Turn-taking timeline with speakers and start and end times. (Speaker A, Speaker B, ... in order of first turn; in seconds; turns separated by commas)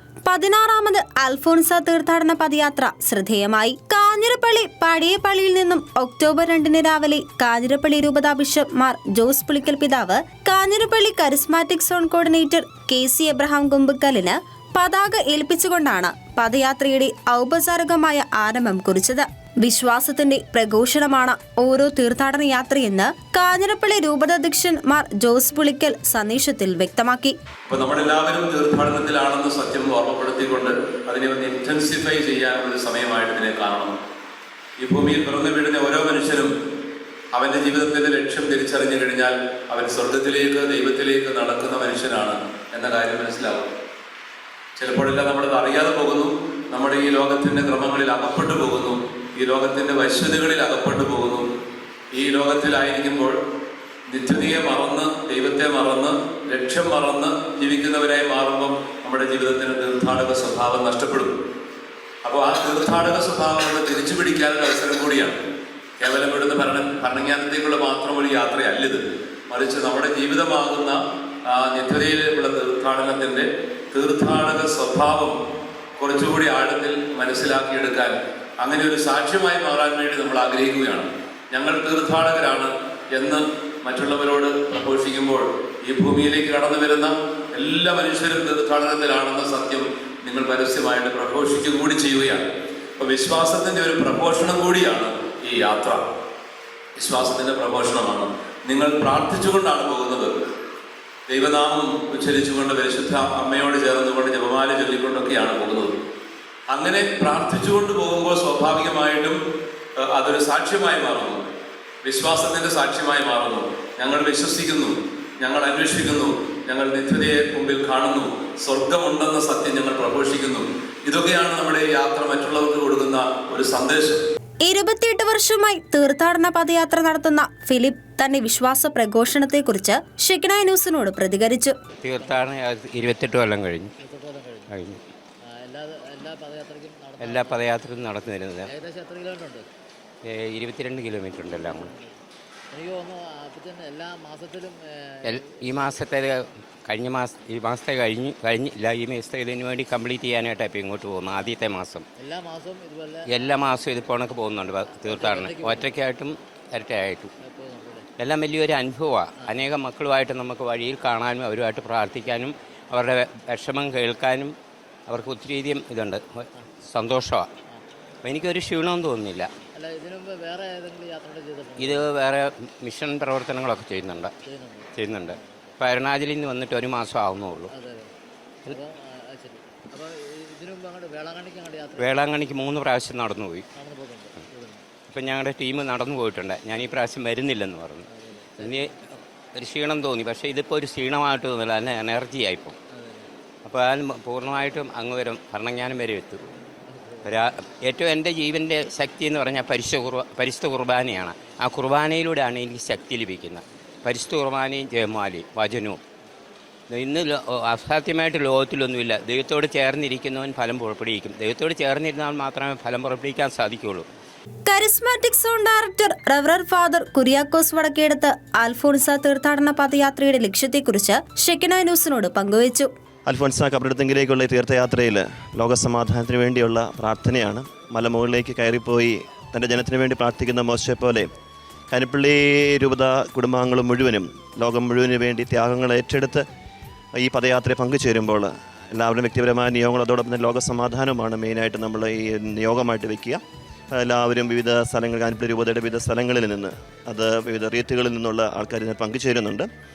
Speaker A: 0.2-27.3, Speaker B: 27.7-33.9, Speaker B: 34.8-36.5, Speaker B: 37.3-43.7, Speaker B: 44.8-51.5, Speaker B: 52.1-53.4, Speaker B: 54.1-61.3, Speaker B: 62.2-65.4, Speaker B: 66.0-75.3, Speaker B: 76.0-92.4, Speaker B: 93.0-96.0, Speaker B: 97.0-100.3, Speaker B: 101.3-105.9, Speaker B: 106.7-109.4, Speaker B: 110.0-111.5, Speaker B: 112.0-124.2, Speaker A: 124.6-131.7, Speaker C: 132.0-133.9, Speaker D: 132.2-132.4, Speaker D: 134.0-134.7, Speaker C: 134.7-135.0, Speaker D: 135.5-137.6, Speaker C: 137.2-138.7, Speaker D: 138.7-139.7, Speaker C: 140.2-141.9, Speaker D: 141.5-142.2, Speaker D: 142.7-146.0, Speaker C: 145.2-152.1, Speaker D: 152.2-153.7, Speaker C: 153.3-157.3, Speaker D: 155.0-155.9, Speaker D: 157.4-158.1, Speaker C: 158.2-164.5, Speaker C: 165.1-167.5, Speaker C: 168.2-169.5, Speaker D: 169.7-172.1, Speaker C: 171.8-174.3, Speaker D: 174.4-175.7, Speaker C: 174.9-177.7, Speaker D: 177.7-178.1, Speaker D: 178.7-182.2, Speaker C: 182.0-183.7, Speaker D: 183.8-184.8, Speaker C: 185.1-188.0, Speaker D: 188.1-188.8, Speaker C: 188.6-192.8, Speaker D: 192.9-193.3, Speaker C: 193.6-196.5, Speaker D: 196.9-197.3, Speaker C: 197.2-206.0, Speaker C: 206.9-214.1, Speaker A: 214.7-222.9, Speaker E: 223.3-231.3, Speaker E: 231.9-236.4, Speaker E: 237.2-249.7